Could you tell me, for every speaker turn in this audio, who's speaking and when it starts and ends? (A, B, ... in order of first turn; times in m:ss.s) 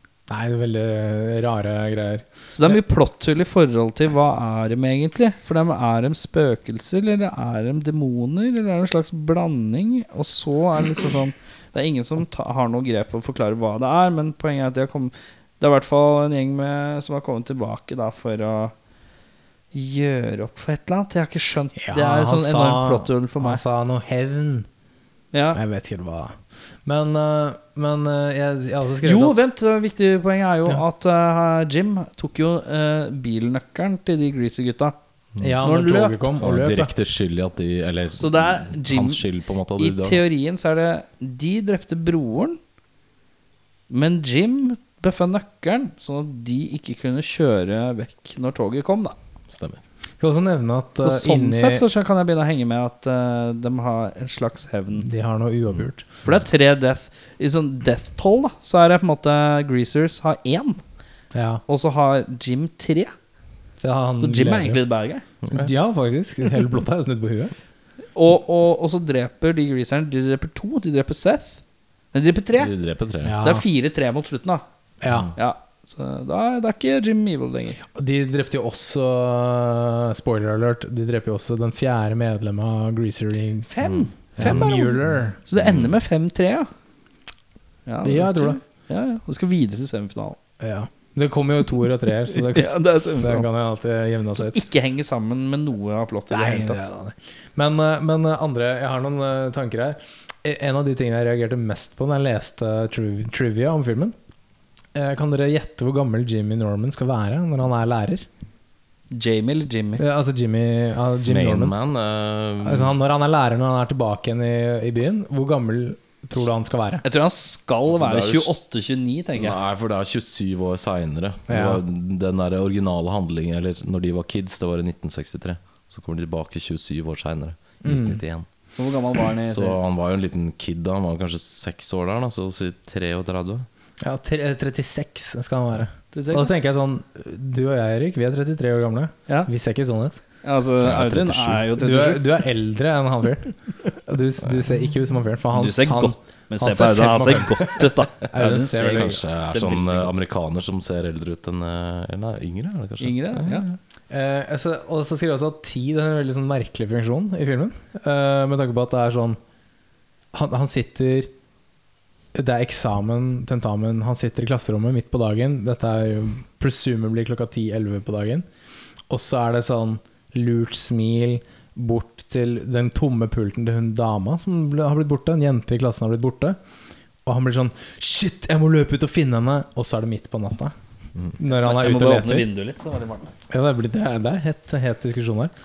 0:00.3-0:02.3 A
0:02.5-0:18.7 B
0:19.7-0:23.6 B
0:21.8-0:24.7 A
0:25.3-0:25.6 B
0:25.5-0:29.4 A
0:29.0-0:34.9 B
0:35.4-0:36.9 A
0:35.6-0:36.2 B
0:36.4-0:40.2 C
0:38.2-0:39.2 B
0:39.8-0:42.6 B
0:43.9-0:49.2 B
0:49.5-0:49.8 C
0:50.2-0:51.8 A
0:51.0-0:55.1 B
0:55.0-0:56.1 A
0:56.2-1:00.8 B
1:01.3-1:01.6 A
1:01.7-1:03.1 B
1:03.8-1:04.8 A
1:04.2-1:05.2 B
1:05.4-1:05.7 C
1:05.5-1:07.5 A
1:08.1-1:11.6 B
1:12.1-1:12.7 B
1:12.6-1:13.4 C
1:13.2-1:13.6 A
1:13.4-1:14.6 B
1:15.0-1:15.3 A
1:15.1-1:15.3 C
1:15.4-1:17.8 B
1:17.9-1:23.7 A
1:23.7-1:26.7 B
1:23.8-1:24.7 C
1:24.4-1:25.4 A
1:25.6-1:26.0 C
1:27.8-1:30.4 B
1:28.0-1:28.6 A
1:30.6-1:34.6 A
1:32.3-1:33.5 B
1:34.4-1:36.9 B
1:36.3-1:44.1 A
1:44.9-1:48.2 A
1:49.1-1:50.0 B
1:50.0-1:51.7 A
1:51.2-1:52.9 C
1:52.6-1:57.0 A
1:57.0-1:59.6 B
1:57.9-1:58.5 C
1:59.4-2:08.4 C
2:01.5-2:01.8 A
2:07.8-2:08.2 A
2:08.8-2:09.8 B
2:09.5-2:13.6 C
2:14.0-2:20.2 A
2:16.1-2:16.5 B
2:20.4-2:22.2 B
2:20.8-2:21.7 C
2:21.8-2:29.2 A
2:25.5-2:30.1 B
2:28.4-2:33.7 C
2:33.0-2:33.7 B
2:34.1-2:39.4 A
2:40.3-2:41.3 A
2:42.3-2:48.4 A
2:49.1-2:56.6 A
2:57.2-3:00.7 A
3:01.4-3:02.5 A
3:01.4-3:03.3 B
3:03.5-3:05.5 A